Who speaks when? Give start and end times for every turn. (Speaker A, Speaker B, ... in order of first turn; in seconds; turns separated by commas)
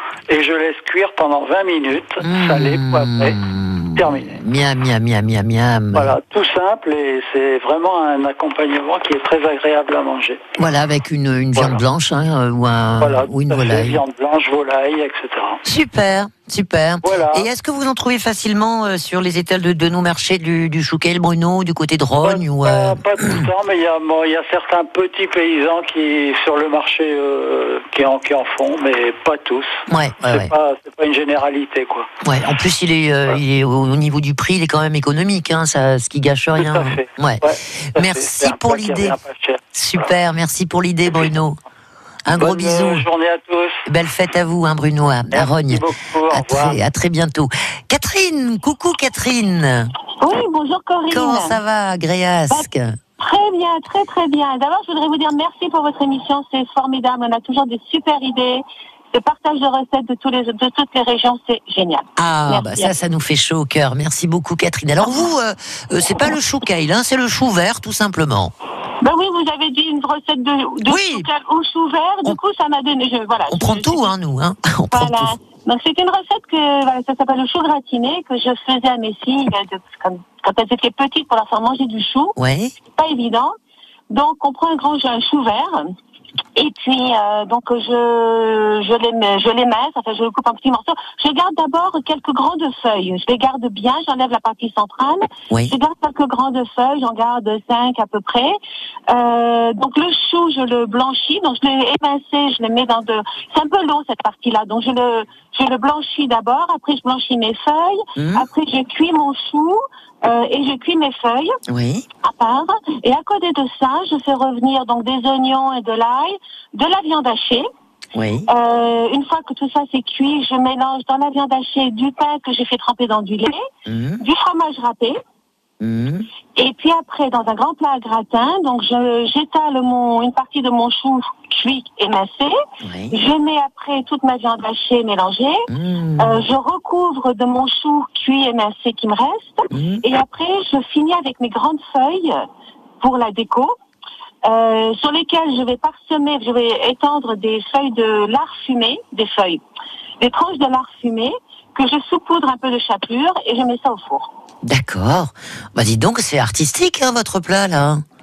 Speaker A: 0.3-3.4, Speaker B: 2.2-6.1, Speaker A: 4.0-4.3, Speaker A: 5.9-10.4, Speaker B: 10.6-14.0, Speaker A: 13.0-15.6, Speaker B: 15.6-23.4, Speaker A: 17.0-17.5, Speaker A: 22.2-32.1, Speaker B: 29.9-30.5, Speaker B: 32.2-39.2, Speaker A: 36.6-40.1, Speaker B: 39.7-41.6, Speaker B: 42.2-43.0, Speaker A: 42.3-43.8, Speaker B: 43.9-49.9, Speaker A: 45.3-46.8, Speaker C: 50.2-51.6, Speaker B: 51.1-53.0, Speaker C: 53.2-62.9, Speaker B: 62.2-68.5, Speaker C: 69.0-74.1, Speaker B: 70.8-71.3, Speaker B: 73.5-75.3, Speaker C: 74.9-82.3, Speaker B: 82.3-82.7, Speaker C: 82.9-83.5, Speaker C: 84.1-85.9, Speaker C: 86.5-98.5, Speaker C: 99.1-111.6, Speaker B: 108.2-108.5, Speaker B: 111.7-112.0, Speaker C: 112.2-117.7, Speaker B: 118.1-118.5, Speaker C: 118.5-123.6, Speaker B: 123.8-124.2, Speaker C: 124.2-125.2, Speaker B: 125.8-126.3, Speaker C: 126.5-132.5, Speaker B: 132.8-133.2, Speaker C: 133.1-135.7, Speaker B: 135.7-136.4, Speaker C: 136.2-142.4, Speaker B: 139.7-140.0, Speaker C: 143.0-143.7, Speaker C: 144.4-149.6, Speaker C: 150.2-154.3, Speaker B: 154.6-158.0